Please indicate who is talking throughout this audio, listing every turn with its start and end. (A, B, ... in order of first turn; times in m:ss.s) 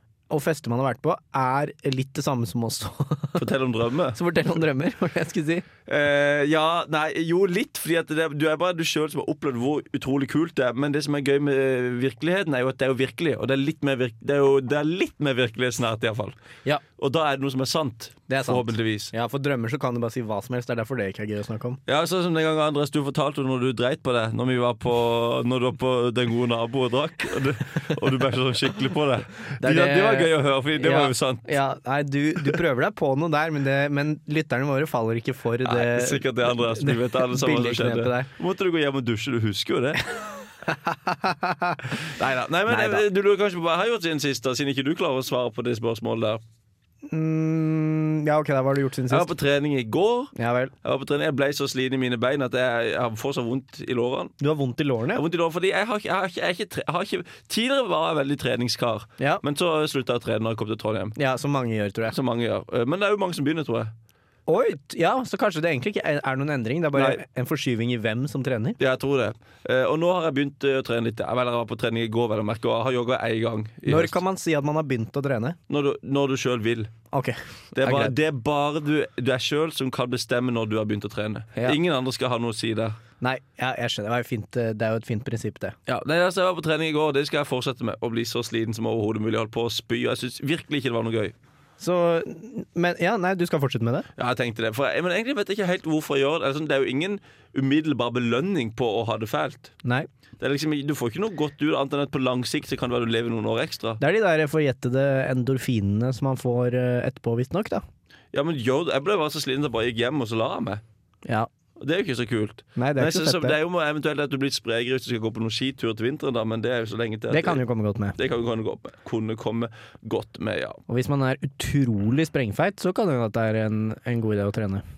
0:00.3-0:03.4 A
0:03.4-0:04.2 B
0:04.2-0:05.6 A
0:05.9-0:16.4 B
0:17.0-0:19.1 B
0:18.3-0:21.8 A
0:21.9-0:31.5 B
0:29.6-0:38.3 A
0:35.6-0:40.0 B
0:40.6-0:42.1 A
0:42.0-0:46.4 B
0:42.7-0:43.0 A
0:47.1-0:49.3 A
0:49.1-0:54.3 B
0:50.4-0:50.7 A
0:54.4-0:55.2 A
0:55.1-1:01.2 B
1:01.2-1:02.2 A
1:02.1-1:03.9 B
1:04.5-1:08.8 A
1:06.9-1:07.2 B
1:08.8-1:14.2 B
1:13.9-1:15.6 A
1:15.7-1:16.9 B
1:17.1-1:18.1 A
1:17.8-1:23.0 B
1:23.2-1:25.8 A
1:25.9-1:31.4 B
1:31.8-1:34.1 A
1:34.2-1:39.7 B
1:40.4-1:44.0 B
1:44.0-1:47.8 A
1:48.3-1:50.8 B
1:51.8-1:57.6 B
1:52.8-1:53.6 A
1:57.3-1:58.2 A
1:58.2-2:00.8 B
2:00.9-2:04.8 A